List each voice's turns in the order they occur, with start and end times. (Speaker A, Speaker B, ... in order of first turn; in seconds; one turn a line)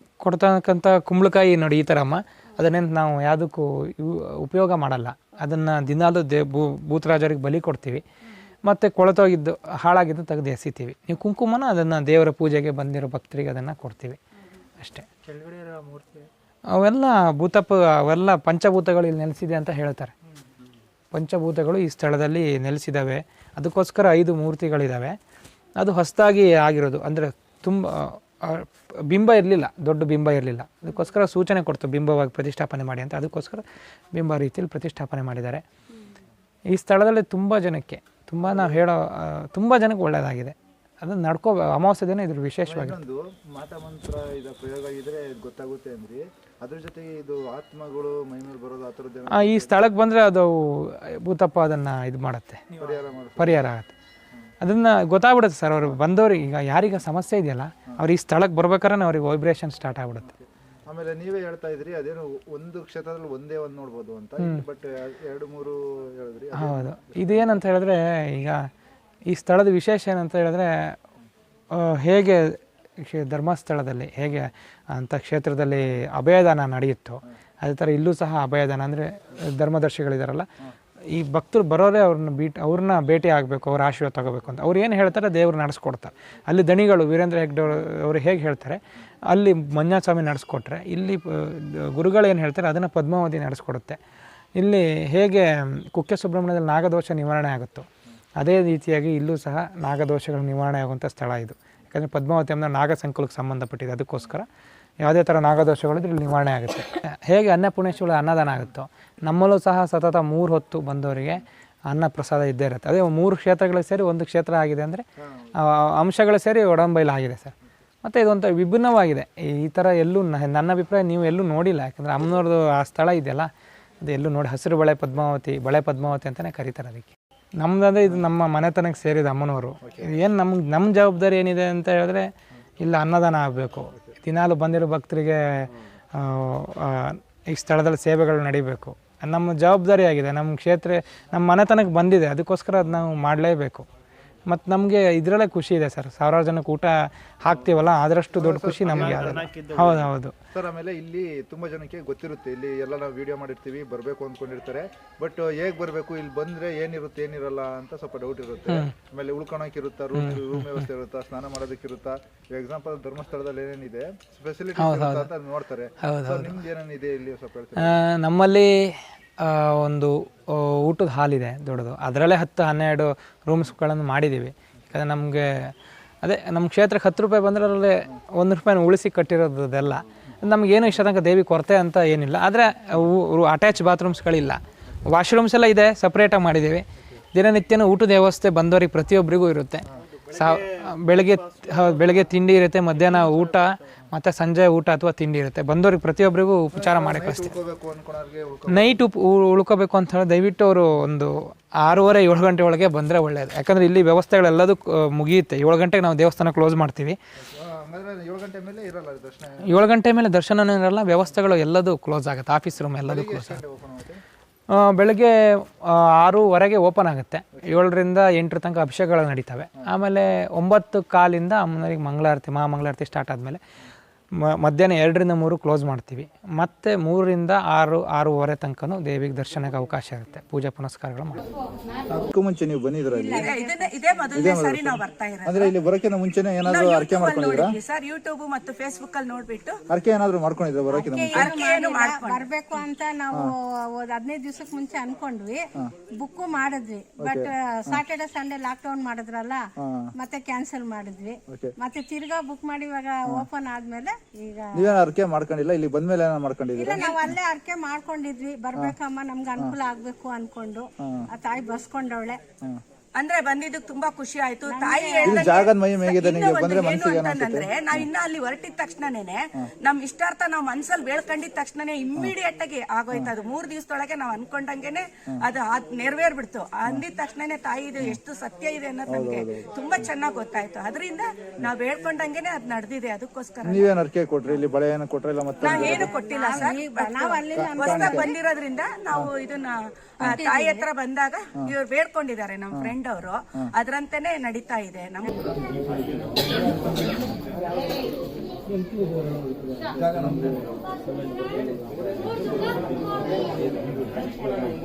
Speaker A: 0.2-8.0
Speaker A: 8.6-14.2
Speaker A: 14.8-15.1
Speaker B: 15.3-16.3
Speaker A: 16.8-20.1
Speaker A: 21.1-25.2
Speaker A: 25.8-33.6
Speaker A: 34.1-35.6
Speaker A: 36.7-43.0
Speaker C: 38.4-38.9
Speaker C: 42.6-49.8
Speaker A: 49.3-52.8
Speaker C: 52.8-53.7
Speaker A: 53.4-53.9
Speaker A: 54.6-60.3
Speaker C: 60.3-67.6
Speaker A: 66.6-68.7
Speaker A: 69.3-71.0
Speaker A: 71.7-80.5
Speaker A: 81.1-94.0
Speaker A: 94.6-104.5
Speaker A: 105.0-115.0
Speaker C: 115.2-115.6
Speaker A: 115.6-123.5
Speaker A: 124.0-132.3
Speaker C: 129.8-130.1
Speaker A: 132.8-143.9
Speaker A: 144.5-150.3
Speaker C: 148.3-168.0
Speaker A: 160.2-160.8
Speaker A: 164.8-165.3
Speaker A: 166.0-166.6
Speaker A: 167.8-175.7
Speaker A: 176.2-197.6
Speaker B: 190.3-191.0
Speaker B: 191.6-191.9
Speaker B: 193.1-193.6
Speaker C: 196.7-199.0
Speaker A: 198.7-207.2
Speaker C: 207.4-209.9
Speaker A: 209.7-213.6
Speaker C: 213.0-214.2
Speaker A: 214.7-223.6
Speaker A: 224.4-231.4
Speaker C: 232.1-233.5
Speaker D: 233.1-234.1
Speaker E: 233.3-235.7
Speaker C: 234.3-237.8
Speaker E: 236.7-239.8
Speaker C: 239.9-241.5
Speaker D: 240.9-254.8
Speaker E: 241.3-242.5
Speaker C: 247.2-248.0
Speaker C: 249.8-250.1
Speaker C: 251.5-251.7
Speaker C: 254.7-257.4
Speaker D: 256.8-262.4
Speaker C: 261.0-261.3
Speaker E: 263.1-283.9
Speaker D: 264.7-265.6
Speaker C: 265.2-268.1
Speaker C: 279.1-280.1
Speaker C: 283.6-286.7
Speaker E: 285.6-295.3
Speaker D: 285.6-288.3
Speaker C: 287.5-288.3
Speaker D: 290.2-290.9
Speaker C: 296.6-297.2
Speaker C: 299.9-300.7